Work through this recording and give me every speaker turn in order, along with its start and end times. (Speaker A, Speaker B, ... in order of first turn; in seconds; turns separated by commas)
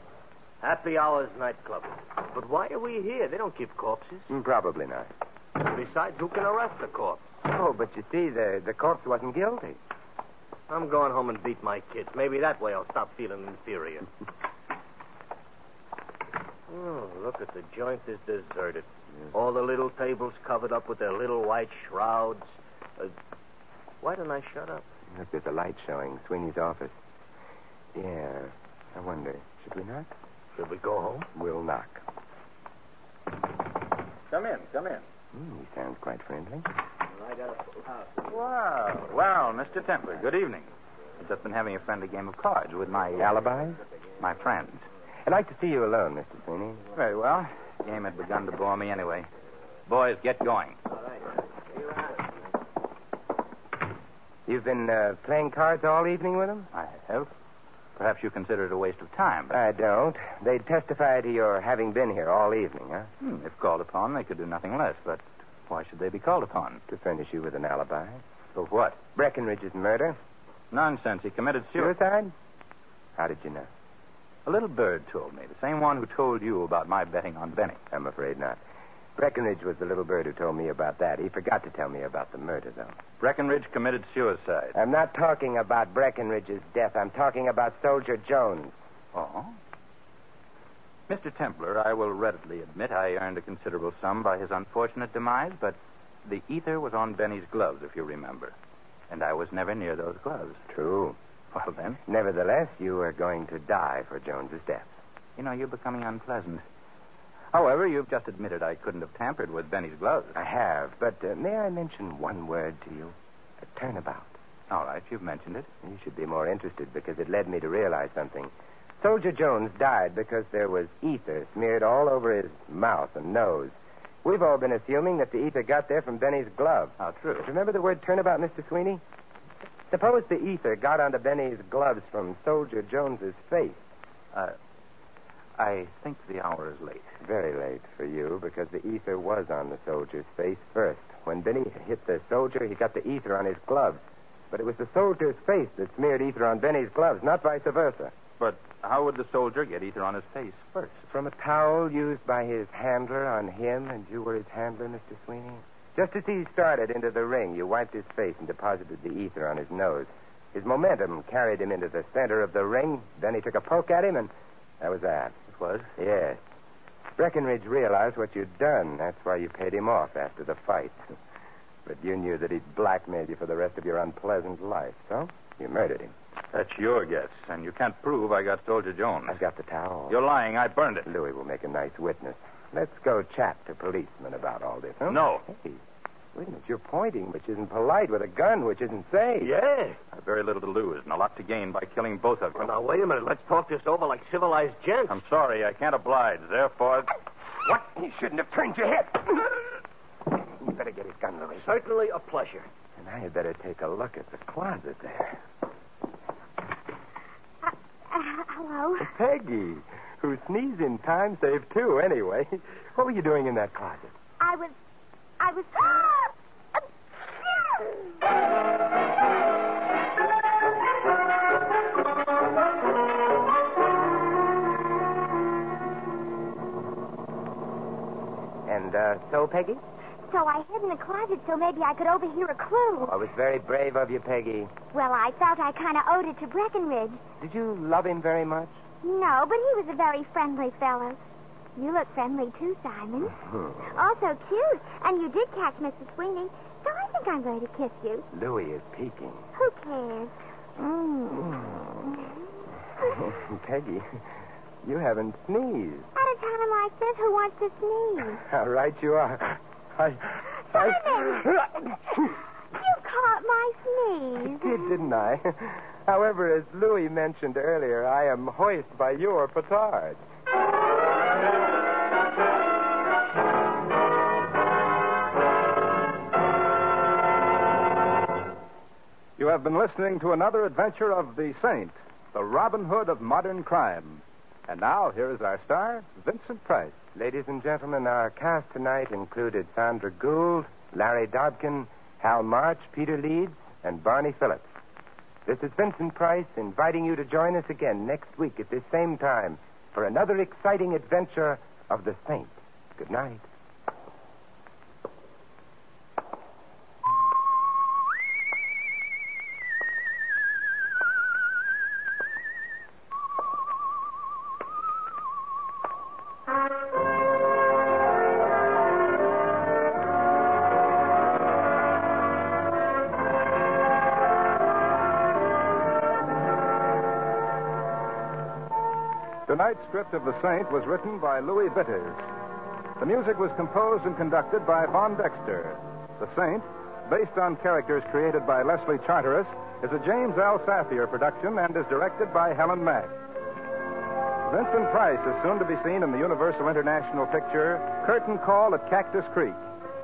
Speaker A: 0.6-4.3, Speaker B: 4.3-5.1, Speaker A: 5.6-7.3, Speaker B: 7.5-9.8, Speaker A: 10.7-14.1, Speaker A: 16.7-23.1, Speaker A: 24.0-24.9, Speaker B: 25.1-27.0, Speaker B: 27.9-30.1, Speaker A: 30.6-31.3, Speaker B: 31.4-32.0, Speaker C: 34.3-35.0, Speaker B: 35.3-36.7, Speaker C: 38.3-40.7, Speaker C: 41.2-43.4, Speaker B: 43.2-43.8, Speaker C: 44.2-44.9, Speaker B: 45.3-46.9, Speaker C: 47.0-49.3, Speaker C: 49.9-50.8, Speaker B: 54.5-56.7, Speaker C: 56.7-57.3, Speaker C: 58.0-59.6, Speaker B: 59.5-63.1, Speaker C: 63.2-66.8, Speaker B: 66.9-68.2, Speaker C: 68.5-69.0, Speaker B: 69.1-70.2, Speaker C: 70.7-71.9, Speaker B: 71.8-72.3, Speaker B: 73.2-73.7, Speaker C: 74.5-77.8, Speaker B: 77.9-78.6, Speaker B: 79.2-83.0, Speaker C: 83.2-84.8, Speaker B: 84.8-88.8, Speaker C: 89.1-89.6, Speaker C: 91.1-98.5, Speaker C: 99.1-100.6, Speaker B: 100.7-101.2, Speaker C: 101.5-102.0, Speaker B: 102.1-104.9, Speaker C: 105.4-106.6, Speaker C: 107.5-110.4, Speaker B: 110.3-114.3, Speaker C: 114.7-115.7, Speaker B: 115.8-129.0, Speaker C: 127.0-127.5, Speaker B: 129.9-133.8, Speaker C: 135.6-137.1, Speaker B: 137.2-148.1, Speaker C: 148.4-151.0, Speaker B: 151.1-165.4, Speaker C: 165.5-165.9, Speaker B: 166.0-166.4, Speaker B: 167.2-171.2, Speaker B: 171.8-176.1, Speaker C: 176.5-179.4, Speaker B: 179.3-180.2, Speaker C: 180.1-181.1, Speaker B: 181.1-185.8, Speaker C: 185.1-185.4, Speaker B: 186.3-189.5, Speaker A: 189.4-190.0, Speaker C: 190.1-192.7, Speaker A: 192.6-195.2, Speaker C: 195.1-197.1, Speaker B: 197.7-199.7, Speaker B: 200.6-201.7, Speaker A: 201.6-202.7, Speaker B: 203.0-205.4, Speaker D: 208.1-209.1, Speaker B: 209.0-214.1, Speaker D: 214.4-214.8, Speaker D: 215.4-216.8, Speaker D: 217.5-218.0, Speaker B: 228.7-229.8, Speaker D: 230.3-233.1, Speaker B: 233.0-234.8, Speaker D: 234.9-237.2, Speaker B: 237.4-238.7, Speaker D: 239.0-241.2, Speaker D: 241.8-243.4, Speaker B: 243.4-243.8, Speaker D: 243.9-248.3, Speaker B: 248.3-249.5, Speaker D: 249.6-252.3, Speaker B: 251.3-251.9, Speaker B: 253.0-254.3, Speaker B: 254.8-256.1, Speaker D: 256.2-258.4, Speaker B: 258.3-262.3, Speaker D: 260.7-261.4, Speaker D: 262.7-264.8, Speaker B: 264.4-270.2, Speaker E: 279.4-287.0, Speaker B: 287.1-294.7, Speaker B: 295.5-303.5, Speaker E: 329.5-332.3, Speaker E: 333.0-343.1, Speaker E: 344.5-349.6